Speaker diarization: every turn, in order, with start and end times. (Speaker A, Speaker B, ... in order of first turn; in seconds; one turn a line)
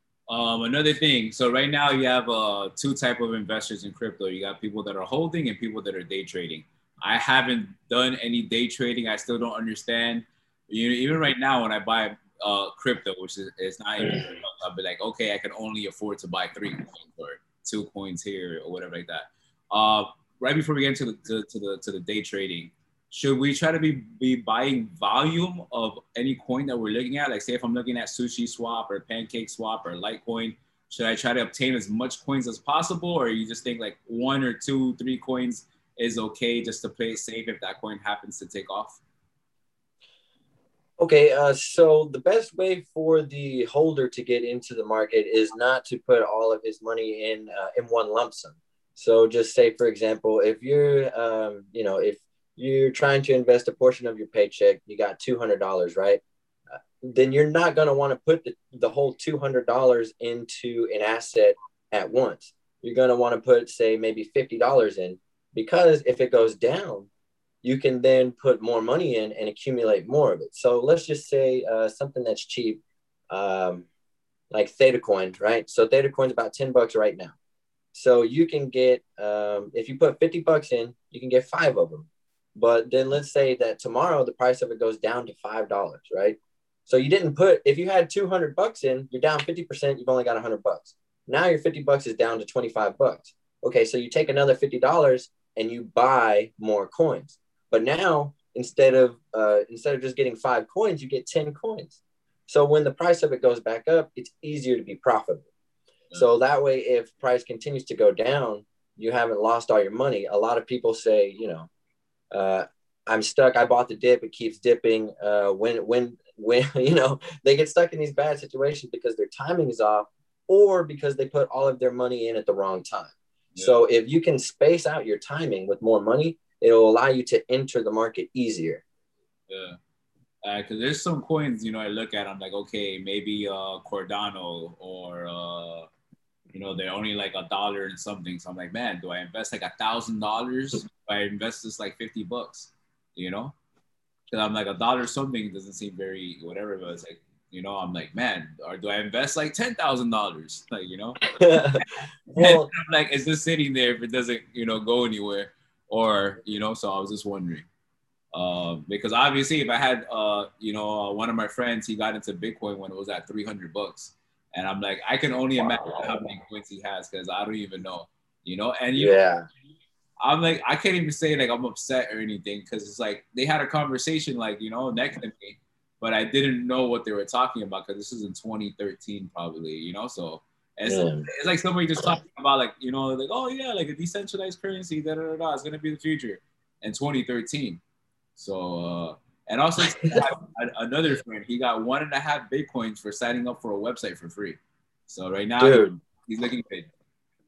Speaker A: 0.3-39.0
Speaker B: 41.0-56.2
Speaker B: 57.0-67.1
Speaker B: 67.6-73.8
Speaker B: 74.5-77.3
Speaker B: 77.9-105.5
Speaker B: 106.1-111.7
Speaker B: 112.3-128.8
Speaker A: 129.5-129.8
Speaker A: 130.4-135.9
Speaker A: 136.5-143.5
Speaker A: 144.3-151.2
Speaker B: 151.3-152.7
Speaker A: 152.4-157.7
Speaker A: 158.3-169.1
Speaker B: 168.9-169.5
Speaker A: 170.2-187.8
Speaker B: 180.8-181.3
Speaker A: 188.4-196.9
Speaker B: 189.9-190.2
Speaker B: 195.6-195.9